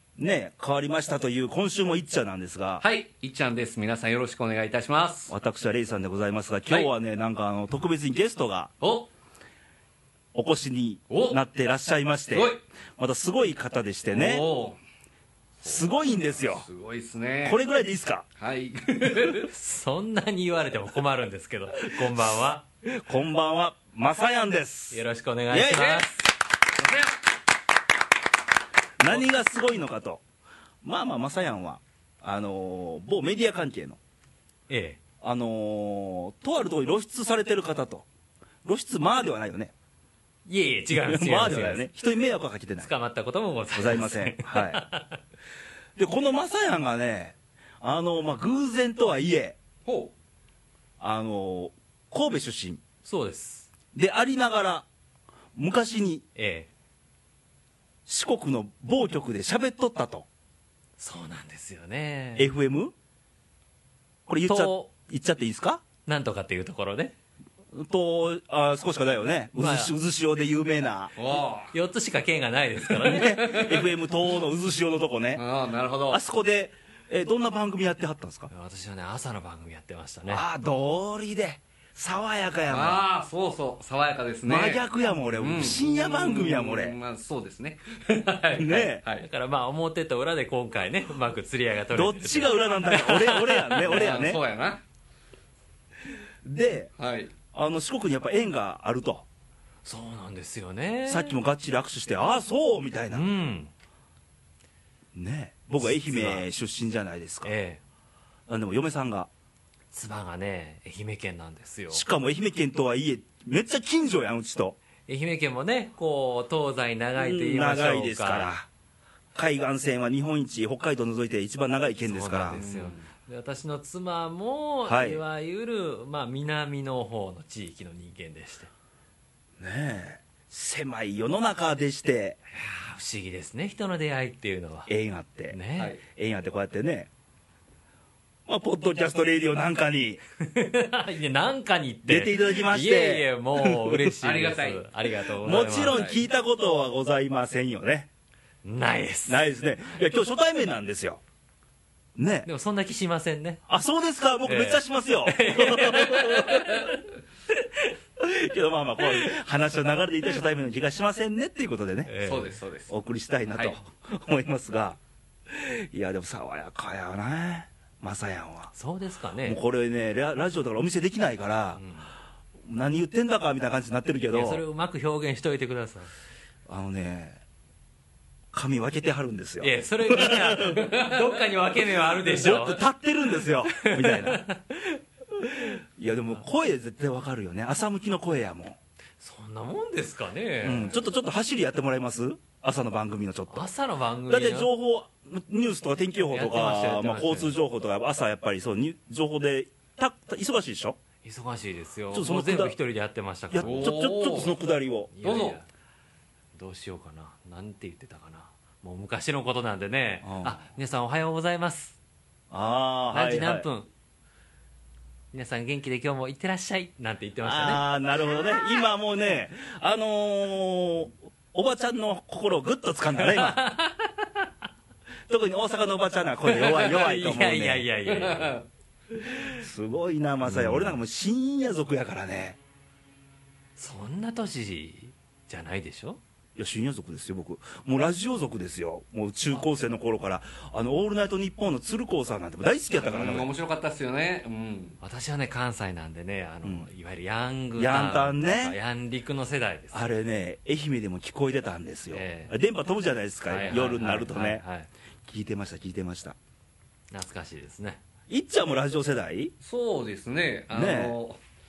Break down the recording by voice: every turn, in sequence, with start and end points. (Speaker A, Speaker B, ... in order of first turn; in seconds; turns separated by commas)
Speaker A: 0.2-2.8, Speaker B: 2.8-5.3, Speaker A: 5.3-8.7, Speaker B: 8.8-9.1, Speaker A: 10.3-14.5, Speaker B: 11.1-11.4, Speaker B: 12.3-12.6, Speaker B: 14.1-14.8, Speaker A: 15.6-16.6, Speaker B: 15.6-17.6, Speaker A: 17.4-18.2, Speaker B: 18.4-19.5, Speaker C: 19.3-22.6, Speaker A: 21.9-22.3, Speaker A: 22.8-26.0, Speaker C: 24.9-26.2, Speaker B: 25.7-26.1, Speaker B: 26.8-27.1, Speaker A: 29.0-30.2, Speaker A: 30.8-34.0, Speaker C: 34.7-35.0, Speaker A: 35.2-38.1, Speaker A: 38.6-39.7, Speaker C: 40.5-41.9, Speaker A: 40.9-42.9, Speaker C: 42.8-45.2, Speaker A: 43.7-44.9, Speaker A: 46.0-49.6, Speaker B: 49.8-50.1, Speaker A: 51.0-52.8, Speaker C: 53.0-53.7, Speaker A: 53.9-54.9, Speaker A: 55.5-56.2, Speaker C: 56.4-56.7, Speaker A: 58.1-60.3, Speaker C: 61.0-62.5, Speaker A: 62.4-62.9, Speaker A: 64.3-65.8, Speaker C: 64.4-64.9, Speaker C: 66.0-67.1, Speaker A: 67.7-71.1, Speaker C: 69.5-69.9, Speaker B: 71.2-71.7, Speaker C: 71.7-73.7, Speaker A: 73.0-75.4, Speaker B: 73.2-73.8, Speaker B: 75.3-76.2, Speaker A: 76.1-78.5, Speaker C: 78.5-80.5, Speaker A: 80.3-83.0, Speaker B: 82.7-89.3, Speaker A: 84.4-87.0, Speaker A: 88.5-89.0, Speaker C: 89.2-93.8, Speaker A: 91.9-94.4, Speaker B: 93.8-94.8, Speaker A: 96.4-96.9, Speaker B: 97.0-97.3, Speaker A: 97.5-99.2, Speaker C: 99.8-101.4, Speaker A: 101.1-103.3, Speaker C: 103.1-103.7, Speaker A: 105.1-107.5, Speaker C: 105.8-106.5, Speaker C: 107.4-107.8, Speaker A: 108.5-109.3, Speaker C: 109.9-112.0, Speaker A: 111.9-114.8, Speaker C: 115.0-118.5, Speaker A: 117.2-118.7, Speaker A: 119.3-122.6, Speaker C: 122.0-128.7, Speaker B: 122.5-123.1, Speaker A: 124.8-125.2, Speaker A: 129.6-132.4, Speaker C: 132.5-134.9, Speaker A: 134.9-137.1, Speaker C: 135.5-136.0, Speaker A: 138.4-140.2, Speaker C: 140.4-146.1, Speaker A: 142.1-144.1, Speaker B: 144.2-146.2, Speaker A: 145.4-148.1, Speaker C: 148.6-149.4, Speaker A: 149.3-151.2, Speaker A: 152.2-152.5, Speaker C: 152.4-153.7, Speaker A: 153.7-157.0, Speaker C: 154.4-157.9, Speaker A: 158.2-162.2, Speaker C: 159.0-159.3, Speaker C: 162.1-162.5, Speaker B: 162.2-163.0, Speaker A: 162.9-168.7, Speaker C: 163.4-163.8, Speaker C: 168.7-169.6, Speaker A: 169.4-171.8, Speaker C: 171.8-172.1, Speaker A: 172.6-174.6, Speaker C: 174.3-176.1, Speaker A: 176.7-177.4, Speaker A: 178.5-180.9, Speaker C: 179.6-182.9, Speaker A: 182.1-184.4, Speaker C: 183.4-185.0, Speaker A: 185.3-188.8, Speaker C: 189.2-191.0, Speaker A: 190.6-193.7, Speaker C: 193.5-194.7, Speaker A: 194.3-201.0, Speaker C: 196.3-197.5, Speaker C: 201.2-204.0, Speaker A: 202.1-202.8, Speaker A: 203.5-205.1, Speaker B: 203.6-204.6, Speaker C: 205.1-205.7, Speaker B: 205.2-205.6, Speaker C: 206.5-212.0, Speaker A: 210.2-210.6, Speaker A: 212.5-213.7, Speaker C: 213.1-213.9, Speaker C: 215.3-218.8, Speaker A: 217.4-223.6, Speaker C: 223.2-224.4, Speaker A: 225.3-227.9, Speaker C: 226.5-228.6, Speaker B: 228.1-228.6, Speaker A: 229.1-232.6, Speaker C: 230.4-231.0, Speaker C: 233.8-236.2, Speaker A: 236.6-243.5, Speaker B: 242.9-245.0, Speaker C: 245.0-250.1, Speaker A: 247.8-248.8, Speaker A: 249.9-254.6, Speaker C: 252.1-252.5, Speaker C: 253.4-254.9, Speaker A: 255.2-256.4, Speaker C: 257.1-258.0, Speaker A: 258.3-259.5, Speaker B: 259.6-261.4, Speaker A: 260.7-261.2